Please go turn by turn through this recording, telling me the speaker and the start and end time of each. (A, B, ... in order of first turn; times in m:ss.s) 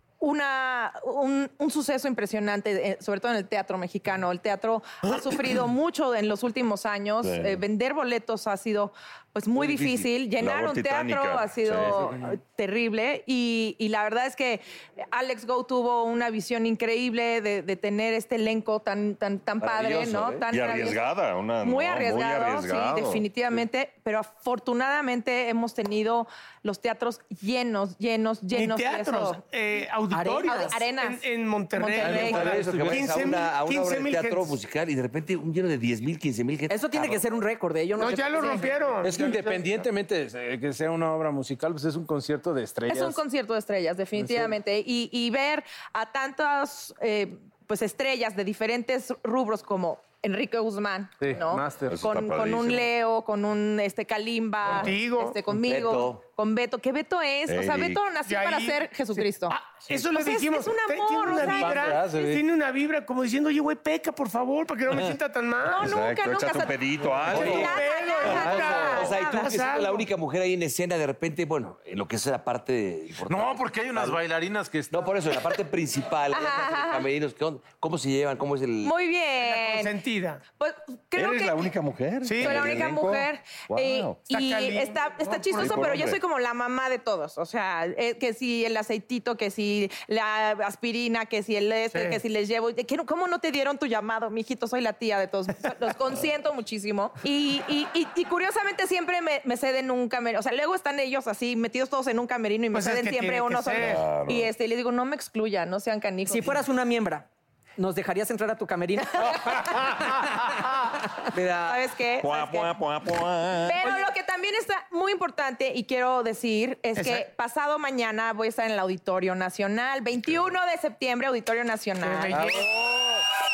0:00.2-0:21.0 A
0:07.2-0:07.6 B
0:09.6-0:10.1 C
0:10.4-0:12.0 B
0:19.6-0:20.5 C
0:20.5-0:23.2 B
0:21.6-0:29.4 A
0:28.5-0:34.6 D
0:30.1-0:30.7 E
0:30.4-0:31.2 A
0:31.8-0:32.6 A
0:32.0-0:33.2 F
0:32.2-0:37.2 C
0:36.7-0:38.8 E
0:38.0-0:39.9 D
0:39.0-0:43.2 F
0:42.9-1:02.0 A
0:44.2-0:44.6 F
0:51.2-0:52.0 F
0:51.9-0:52.9 B
0:54.6-0:55.4 D
0:55.5-0:56.2 C
0:57.5-0:58.0 B
0:58.3-1:05.9 D
1:01.3-1:02.4 F
1:05.7-1:09.5 A
1:05.8-1:07.8 B
1:07.1-1:07.7 F
1:07.3-1:07.7 C
1:07.3-1:10.1 D
1:08.2-1:08.9 F
1:08.2-1:14.2 C
1:13.2-1:15.4 F
1:14.9-1:18.9 C
1:16.3-1:17.1 A
1:18.8-1:20.0 A
1:19.4-1:20.4 D
1:20.6-1:21.7 A
1:21.2-1:24.2 B
1:22.2-1:22.8 D
1:22.4-1:46.6 A
1:24.3-1:26.0 D
1:25.6-1:26.2 B
1:42.7-1:44.0 D
1:43.8-1:44.5 B
1:46.3-1:47.3 E
1:47.8-1:49.9 E
1:49.4-1:49.9 A
1:51.3-1:51.8 C
1:51.6-1:52.7 A
1:52.2-1:53.8 B
1:53.6-2:02.5 A
1:57.0-1:57.3 D
2:02.0-2:02.8 D
2:02.3-2:02.7 F